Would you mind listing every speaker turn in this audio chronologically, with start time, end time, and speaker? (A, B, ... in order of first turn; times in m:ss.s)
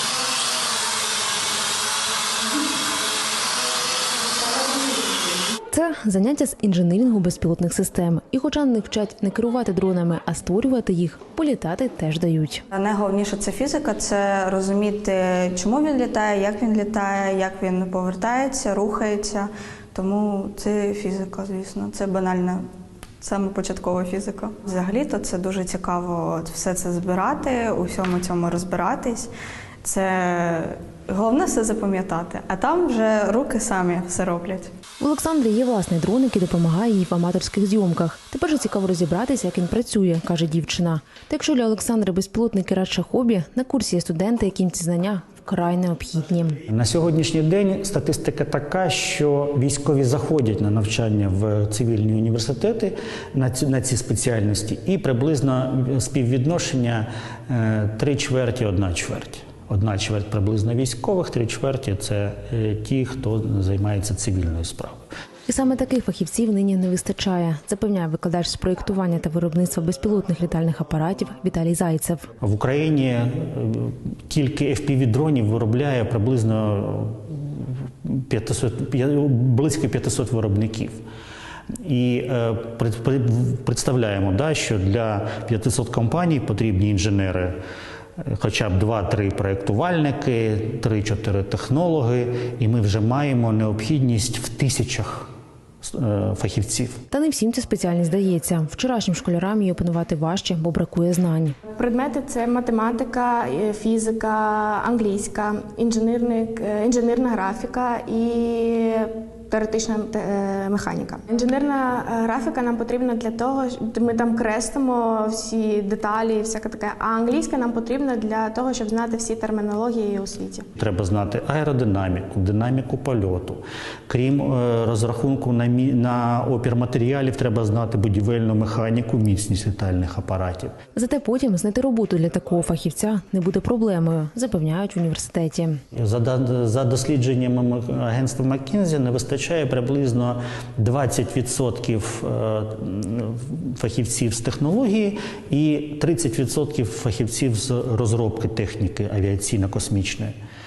0:05.7-0:12.6 A
0:12.7-0:22.6 B
0:23.2-0:29.3 B
0:29.8-0:34.7 B
0:35.0-0:46.6 A
0:46.7-1:05.0 C
1:05.5-1:12.3 A
1:12.4-1:21.0 C
1:21.8-1:27.6 C
1:28.2-1:35.3 C
1:35.8-1:37.0 C
1:37.1-1:41.6 A
1:41.8-2:00.7 D
2:00.8-2:10.8 C
2:11.0-2:15.8 A
2:15.9-2:30.3 C